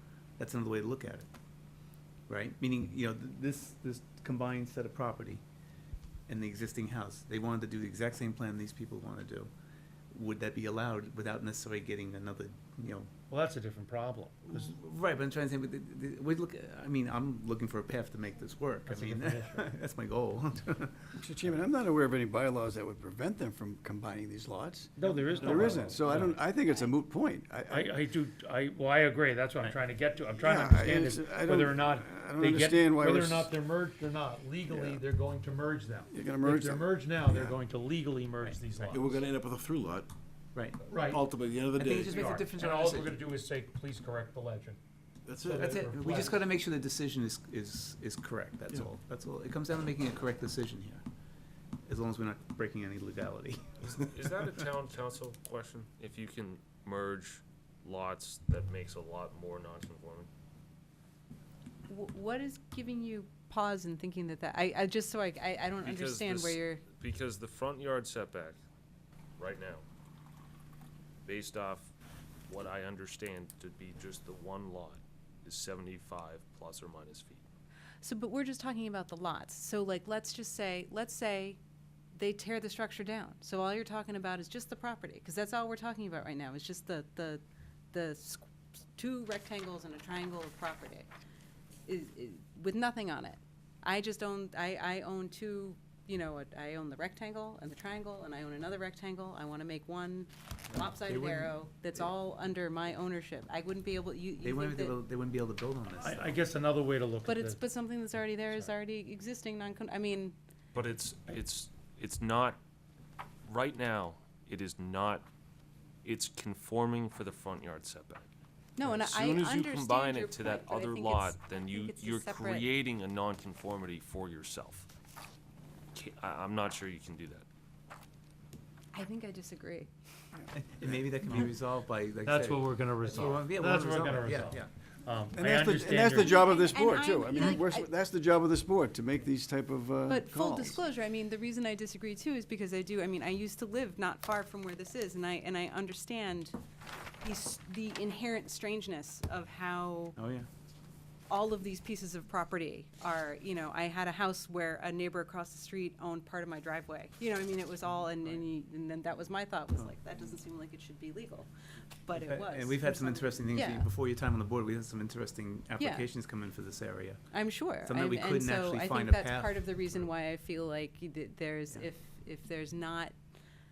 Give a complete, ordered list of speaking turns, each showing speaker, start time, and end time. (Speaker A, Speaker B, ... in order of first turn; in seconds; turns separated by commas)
Speaker A: 0.4-1.3, Speaker A: 2.3-5.4, Speaker A: 6.3-9.5, Speaker A: 10.1-13.1, Speaker B: 13.3-14.7, Speaker A: 14.4-21.5, Speaker B: 18.9-19.7, Speaker C: 21.2-28.0, Speaker B: 25.0-26.4, Speaker B: 27.7-39.1, Speaker C: 30.4-33.5, Speaker C: 34.7-35.0, Speaker C: 36.1-37.5, Speaker A: 38.7-39.0, Speaker D: 38.9-40.1, Speaker B: 40.9-41.2, Speaker D: 41.0-42.3, Speaker A: 41.8-43.2, Speaker B: 42.0-44.8, Speaker D: 45.3-46.2, Speaker B: 45.4-46.4, Speaker A: 45.5-51.0, Speaker A: 51.9-53.7, Speaker E: 53.8-60.3, Speaker F: 61.9-66.8, Speaker E: 65.8-68.6, Speaker E: 69.4-69.8, Speaker E: 71.2-71.9, Speaker E: 72.5-77.4, Speaker F: 78.0-81.6, Speaker F: 82.1-91.1, Speaker F: 91.9-105.0, Speaker A: 100.7-102.0, Speaker A: 104.4-106.4, Speaker B: 106.0-107.6, Speaker F: 107.2-110.3, Speaker B: 108.1-108.7, Speaker E: 110.7-112.6, Speaker E: 113.5-115.3, Speaker E: 116.0-118.2, Speaker F: 118.8-122.7, Speaker E: 118.8-124.9, Speaker E: 125.9-127.5, Speaker F: 128.9-129.9, Speaker A: 130.5-134.7, Speaker B: 132.2-136.3, Speaker C: 135.3-140.8, Speaker F: 136.1-137.9, Speaker F: 140.1-146.6, Speaker F: 147.2-150.2, Speaker A: 150.2-150.5, Speaker F: 151.3-161.5, Speaker A: 157.9-158.4, Speaker F: 162.1-163.9, Speaker A: 162.1-170.0, Speaker F: 165.8-166.1, Speaker F: 167.3-173.2